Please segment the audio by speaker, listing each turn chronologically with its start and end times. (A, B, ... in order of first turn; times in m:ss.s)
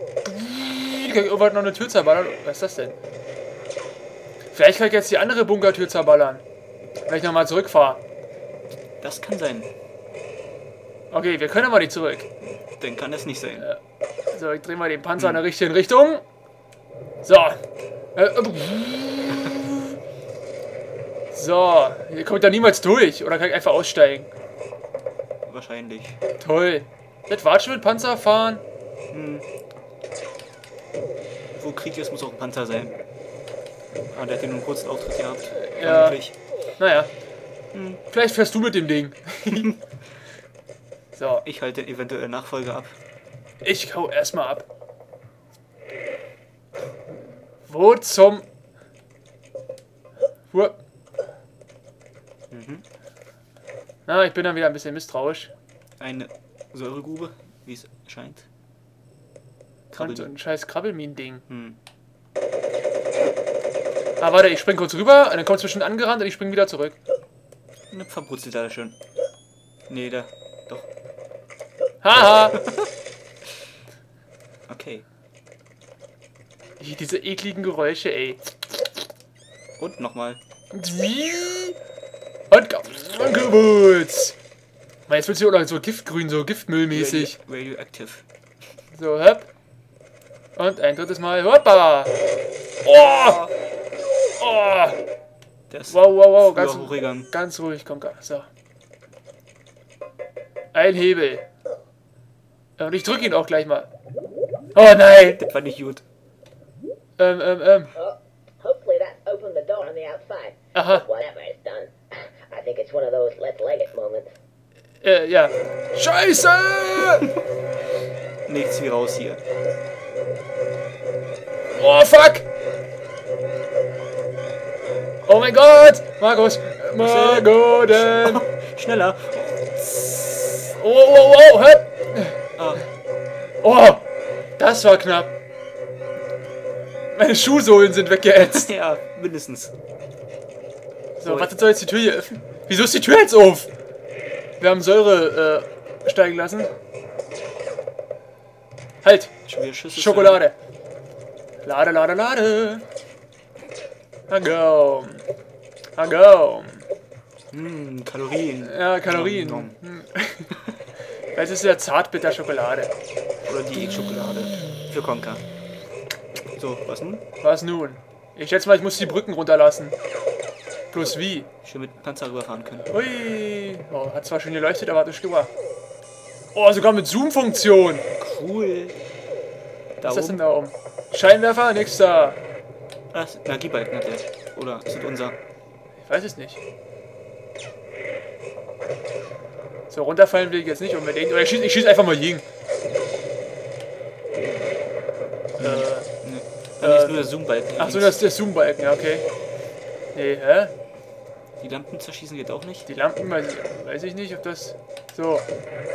0:00.2-0:03.0 A
0:04.5-0:06.4 A
0:07.1-0:08.0 A
0:09.0-0:09.7 B
0:11.1-0:12.3 A
0:12.8-0:13.7 B
0:14.3-0:16.2 A
0:17.2-0:17.6 A
0:18.2-0:19.9 A
0:21.3-0:24.3 A
0:25.5-0:26.2 B
0:26.4-0:28.6 A
0:29.1-0:29.4 B
0:31.6-0:33.0 B
0:34.1-0:36.4 B
0:35.6-0:36.2 A
0:36.8-0:37.1 A
0:37.7-0:38.0 B
0:38.1-0:39.7 A
0:41.2-0:41.4 A
0:41.4-0:43.0 B
0:43.6-0:44.6 A
0:47.7-0:48.4 A
0:50.5-0:50.8 A
0:52.5-0:52.8 B
0:54.1-0:55.5 A
0:56.0-0:58.5 B
0:59.9-1:00.3 B
0:59.9-1:01.4 A
1:01.5-1:01.8 B
1:04.2-1:07.0 A
1:07.9-1:09.0 B
1:09.9-1:10.9 B
1:12.0-1:12.6 A
1:14.7-1:15.0 B
1:16.8-1:18.8 A
1:19.8-1:20.4 B
1:20.7-1:21.8 A
1:22.5-1:24.4 A
1:25.1-1:27.4 A
1:26.9-1:28.2 B
1:28.9-1:29.5 A
1:30.6-1:32.1 A
1:32.8-1:33.5 A
1:34.4-1:35.0 A
1:35.7-1:37.3 B
1:35.9-1:38.5 A
1:40.7-1:41.4 A
1:42.8-1:43.9 A
1:44.8-1:45.4 A
1:45.4-1:46.0 B
1:47.2-1:47.9 A
1:48.0-1:54.3 C
1:50.7-1:51.1 A
1:55.0-1:57.3 A
1:58.5-1:59.4 B
2:01.7-2:02.4 A
2:05.3-2:08.4 A
2:07.0-2:10.3 B
2:10.6-2:12.4 A
2:12.6-2:12.8 B
2:13.6-2:14.0 A
2:14.6-2:15.3 A
2:17.1-2:18.7 A
2:18.4-2:19.7 B
2:21.2-2:23.7 A
2:21.2-2:21.5 B
2:24.6-2:26.7 A
2:29.0-2:29.3 A
2:29.5-2:30.4 B
2:29.9-2:30.5 A
2:31.6-2:32.8 A
2:34.3-2:35.2 A
2:36.0-2:36.8 A
2:37.5-2:39.8 B
2:38.6-2:40.5 A
2:41.3-2:42.9 A
2:43.4-2:45.4 B
2:46.6-2:47.2 B
2:47.4-2:50.0 A
2:50.9-2:51.5 A
2:51.0-2:52.9 B
2:52.9-2:55.5 A
2:56.5-2:58.1 A
2:58.2-2:59.0 B
3:00.0-3:00.4 B
3:00.0-3:02.4 A
3:03.1-3:05.4 B
3:06.0-3:06.6 A
3:09.9-3:12.4 A
3:15.6-3:16.1 A
3:15.6-3:18.2 B
3:16.8-3:17.2 A
3:17.8-3:19.3 A
3:20.2-3:20.7 A
3:21.6-3:22.9 B
3:22.9-3:25.5 A